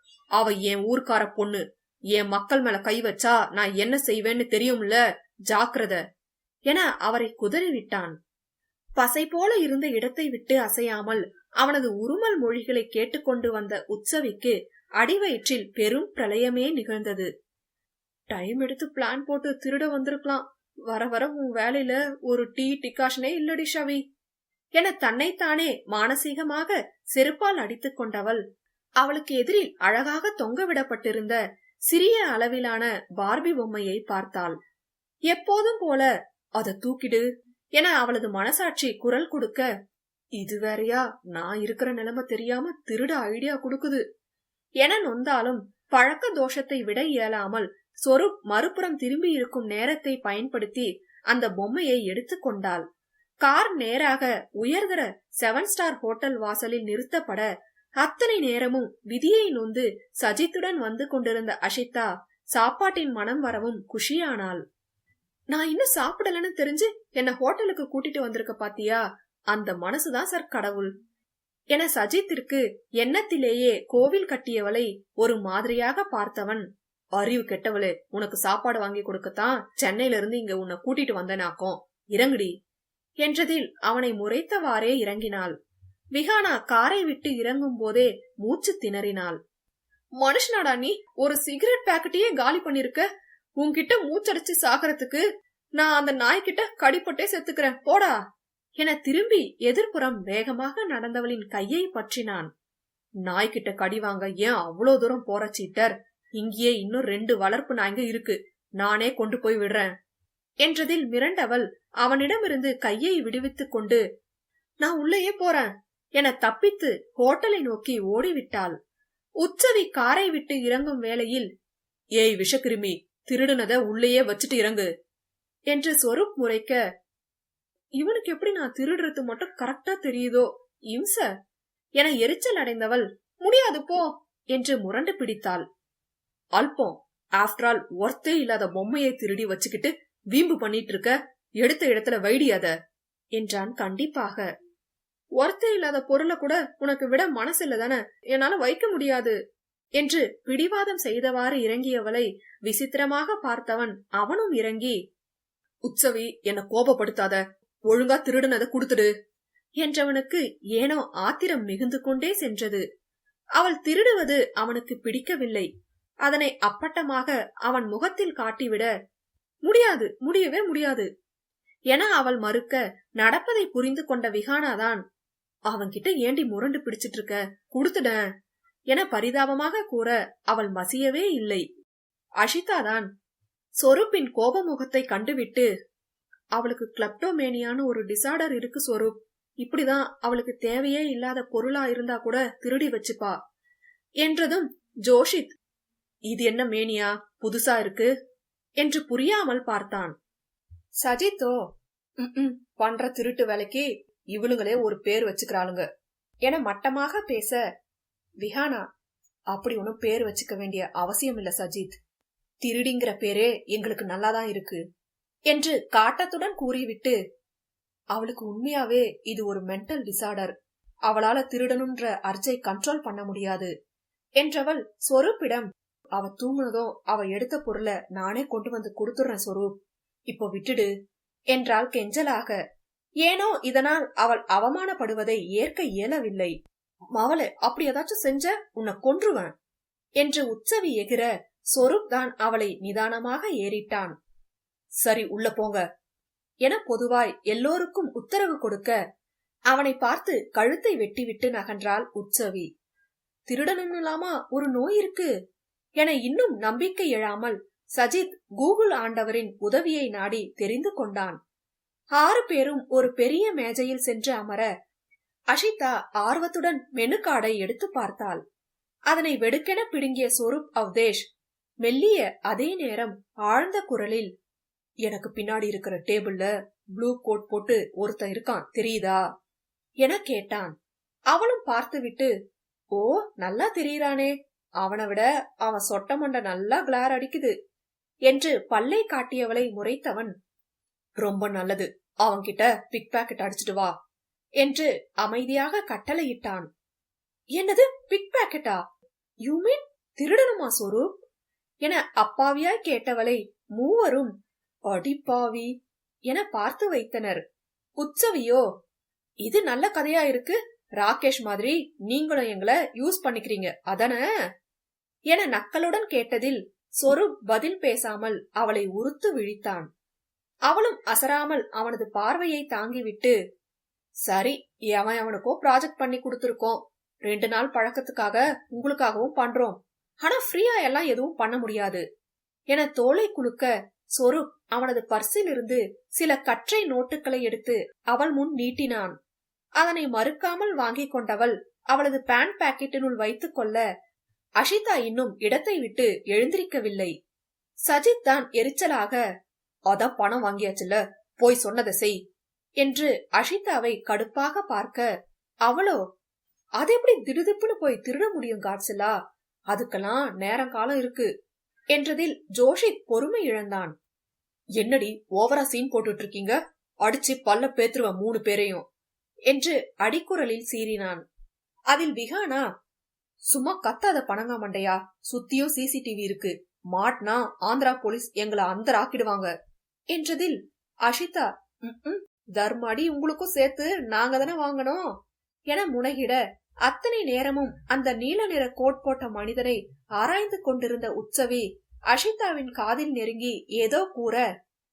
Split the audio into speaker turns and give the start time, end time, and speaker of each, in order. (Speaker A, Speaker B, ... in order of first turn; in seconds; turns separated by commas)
Speaker A: 0.4-6.0, Speaker A: 6.7-8.1, Speaker A: 9.0-17.3, Speaker A: 18.3-24.0, Speaker A: 24.8-28.4, Speaker A: 29.0-31.4, Speaker A: 31.9-34.5, Speaker A: 35.3-37.2, Speaker A: 37.8-39.6, Speaker A: 40.4-44.0, Speaker A: 44.8-52.8, Speaker A: 53.4-57.5, Speaker A: 58.0-64.6, Speaker A: 65.5-70.9, Speaker A: 71.7-82.5, Speaker A: 83.2-85.5, Speaker A: 86.1-89.4, Speaker A: 90.2-93.0, Speaker A: 93.6-95.2, Speaker A: 95.8-98.2, Speaker A: 98.8-102.5, Speaker A: 103.2-109.9, Speaker A: 110.6-114.0, Speaker A: 114.8-118.8, Speaker A: 119.4-121.5, Speaker A: 122.2-124.9, Speaker A: 125.7-126.8, Speaker A: 128.0-131.3, Speaker A: 132.0-135.6, Speaker A: 136.5-142.7, Speaker A: 143.3-144.4, Speaker A: 145.4-149.3, Speaker A: 150.0-155.0, Speaker A: 155.8-159.1, Speaker A: 159.8-162.8, Speaker A: 163.6-165.7, Speaker A: 166.2-168.9, Speaker A: 169.6-171.1, Speaker A: 171.9-175.0, Speaker A: 175.7-178.2, Speaker A: 178.9-181.6, Speaker A: 182.4-183.1, Speaker A: 183.8-185.7, Speaker A: 186.5-193.4, Speaker A: 194.2-195.5, Speaker A: 196.3-198.1, Speaker A: 198.8-200.1, Speaker A: 201.0-201.6, Speaker A: 202.2-205.9, Speaker A: 206.4-207.6, Speaker A: 208.4-208.9, Speaker A: 209.5-212.0, Speaker A: 212.6-214.8, Speaker A: 215.5-217.2, Speaker A: 218.1-220.5, Speaker A: 221.1-223.7, Speaker A: 224.4-229.8, Speaker A: 230.3-230.9, Speaker A: 231.5-232.6, Speaker A: 233.2-236.5, Speaker A: 237.1-239.5, Speaker A: 240.2-244.1, Speaker A: 245.0-245.8, Speaker A: 246.6-248.9, Speaker A: 249.7-252.7, Speaker A: 253.5-255.3, Speaker A: 256.0-261.4, Speaker A: 262.2-264.7, Speaker A: 265.5-268.4, Speaker A: 269.1-271.3, Speaker A: 271.8-274.3, Speaker A: 275.0-279.2, Speaker A: 280.0-280.7, Speaker A: 281.3-282.3, Speaker A: 282.9-287.5, Speaker A: 288.3-290.3, Speaker A: 291.2-293.9, Speaker A: 294.6-296.7, Speaker A: 297.5-298.8, Speaker A: 299.4-301.2, Speaker A: 301.8-304.3, Speaker A: 304.9-305.7, Speaker A: 306.3-307.4, Speaker A: 308.0-308.6, Speaker A: 309.4-314.2, Speaker A: 315.3-319.9, Speaker A: 320.7-323.3, Speaker A: 324.2-332.0, Speaker A: 332.7-339.1, Speaker A: 339.8-343.8, Speaker A: 344.6-347.1, Speaker A: 347.9-349.2, Speaker A: 349.9-352.1, Speaker A: 352.8-355.1, Speaker A: 355.6-356.0, Speaker A: 356.8-359.2, Speaker A: 359.7-361.3, Speaker A: 361.9-363.9, Speaker A: 364.8-368.9, Speaker A: 369.5-371.2, Speaker A: 371.9-372.7, Speaker A: 373.5-379.5, Speaker A: 380.1-385.1, Speaker A: 385.7-394.4